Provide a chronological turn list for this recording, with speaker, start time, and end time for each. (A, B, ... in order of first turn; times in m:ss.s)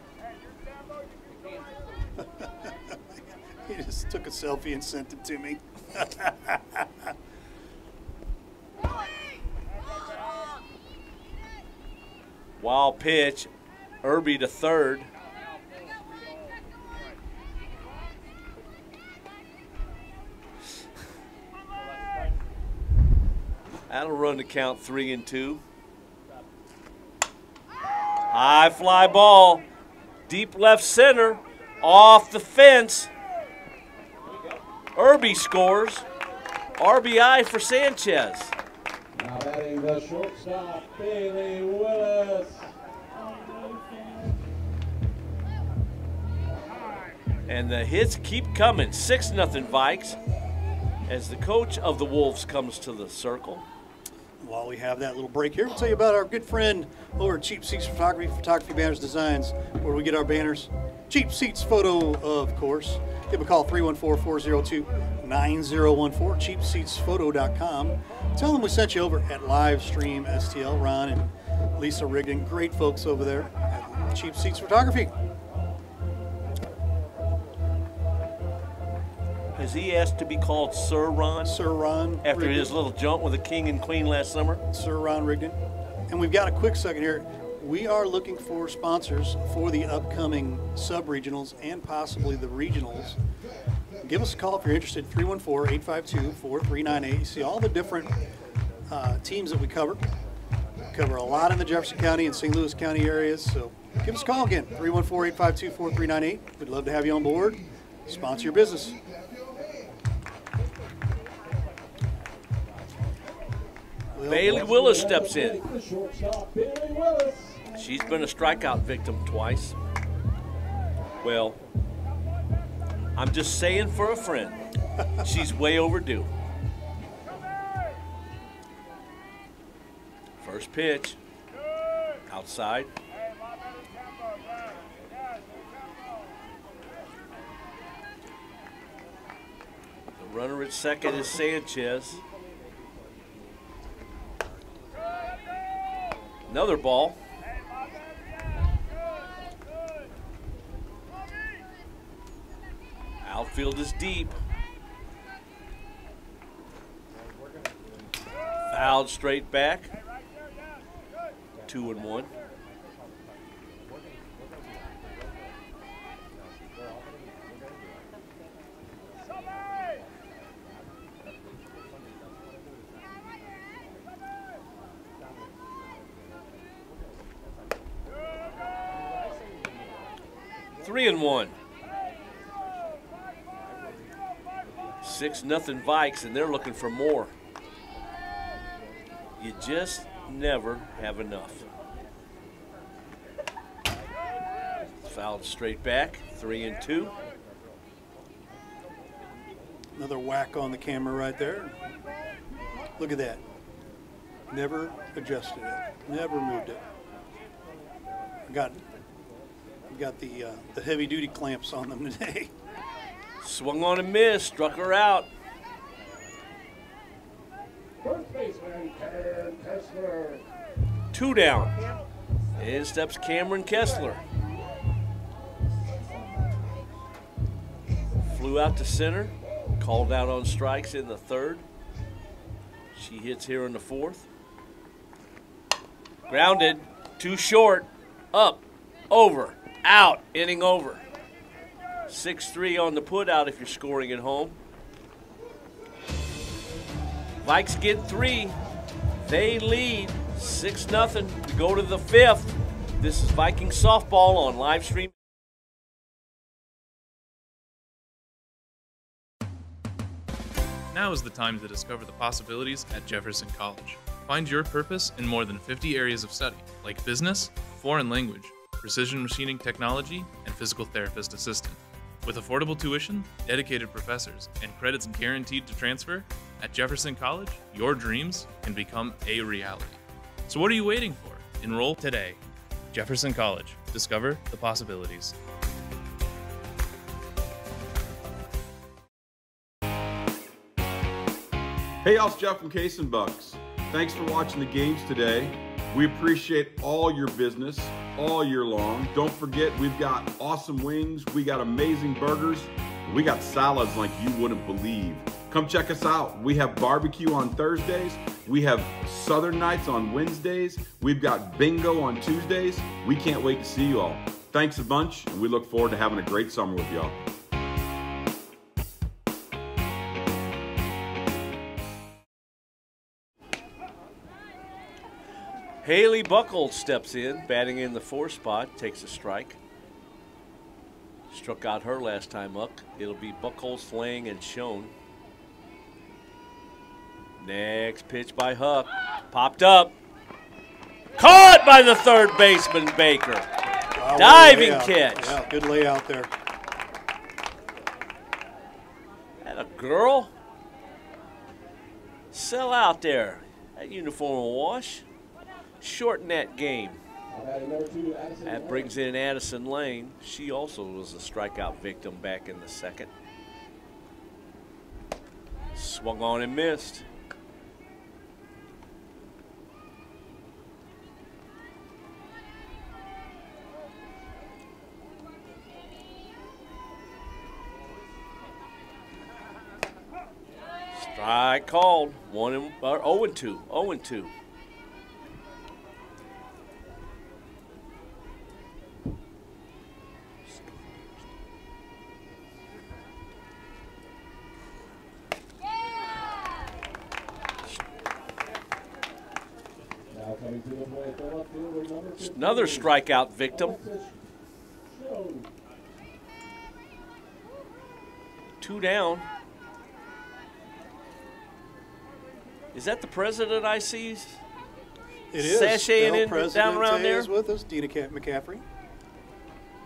0:02.2-0:03.0 A
0:03.6-0:07.1 A
0:12.6-0:13.5 B
0:14.0-0:15.1 B
0:23.9-0:25.6 B
0:28.3-0:29.6 B
0:30.3-0:33.1 B
0:34.9-0:36.0 B
0:36.8-0:38.5 B
0:39.1-0:44.0 C
0:47.5-0:50.2 B
0:51.1-0:53.6 B
0:54.4-1:15.1 A
1:19.5-1:21.6 B
1:21.4-1:22.7 A
1:22.2-1:24.6 B
1:24.7-1:25.6 A
1:26.1-1:33.2 A
1:34.0-1:38.2 A
1:38.9-1:40.0 A
1:40.9-1:49.0 A
1:54.1-1:54.8 A
1:54.3-1:55.6 B
1:54.3-1:57.7 C
1:57.7-1:59.8 B
2:01.2-2:01.6 B
2:03.2-2:04.6 B
2:05.2-2:06.3 B
2:10.4-2:11.2 B
2:12.3-2:12.9 B
2:20.2-2:22.2 B
2:26.5-2:27.2 B
2:33.2-2:34.4 B
2:38.7-2:39.9 B
2:41.6-2:42.3 B
3:00.8-3:01.5 B
3:05.0-3:07.3 B
3:09.4-3:11.7 B
3:15.0-3:17.1 B
3:20.0-3:21.7 A
3:23.0-3:23.4 A
3:24.5-3:26.8 A
3:28.5-3:28.8 A
3:29.9-3:32.5 A
3:33.4-3:35.3 B
3:38.0-3:40.4 C
3:41.1-3:41.8 B
3:42.6-3:44.2 B
3:48.2-3:51.6 B
3:52.9-3:54.3 B
3:56.3-4:01.0 B
4:02.1-4:04.6 B
4:07.4-4:08.6 B
4:09.2-4:15.1 B
4:20.9-4:42.4 D
4:42.9-4:45.4 D
4:52.0-5:17.2 E
5:25.8-5:29.6 B
5:31.3-5:34.9 B
5:37.4-5:39.9 B
5:41.2-5:43.4 B
5:44.0-5:46.3 A
5:44.1-5:45.4 B
5:49.4-5:50.3 B
5:52.3-5:55.0 B
5:55.8-5:57.0 B
5:57.3-5:58.9 C
5:58.4-6:03.1 B
6:05.7-6:07.0 B
6:21.0-6:24.3 B
6:40.1-6:42.9 C
6:42.2-6:43.8 B
6:43.5-6:44.2 C
6:44.9-6:45.5 C
6:48.6-6:49.3 B
6:52.7-6:54.4 B
6:55.3-6:58.6 A
6:55.3-6:57.3 B